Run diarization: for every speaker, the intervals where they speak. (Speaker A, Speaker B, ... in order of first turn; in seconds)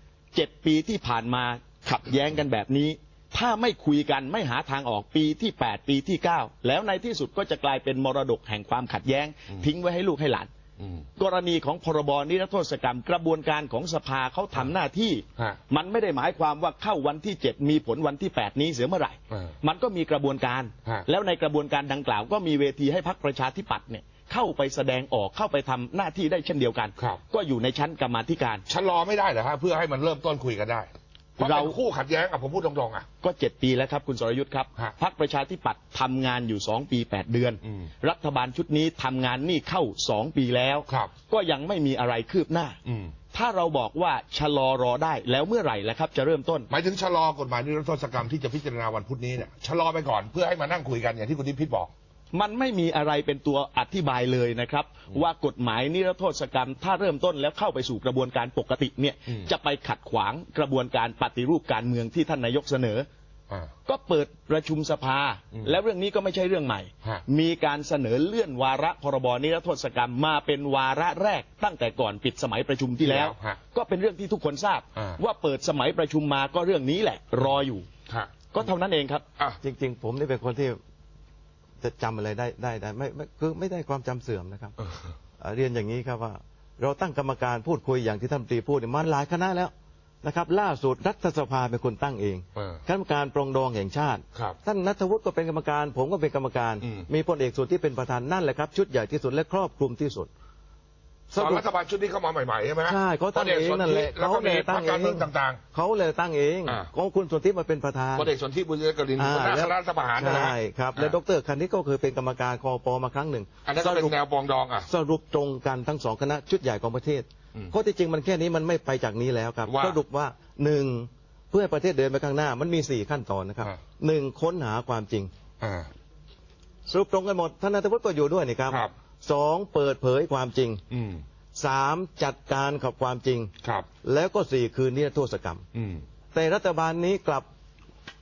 Speaker A: 0.3-10.5, 11.2-28.6, 31.4-31.8, 33.2-42.8, 43.3-46.7, 52.3-63.1, 63.9-77.9, 78.5-79.2
Speaker B: 10.8-11.1, 19.3-19.6, 28.7-33.1, 42.9-43.1, 46.7-51.9, 73.0-73.6, 78.1-78.5, 84.8-85.1, 92.6-92.8, 96.8-97.1, 101.4-105.6, 108.2-111.2, 113.7-114.9, 119.7-120.0, 125.6-125.9, 130.9-131.2, 135.7-136.0
Speaker C: 79.6-80.8, 81.8-84.8, 85.4-89.7, 90.2-100.3, 101.3-101.7, 102.8-108.3, 109.2-114.2, 114.9-125.3, 126.9-130.8, 131.6-133.5, 134.0-135.7, 136.3-137.5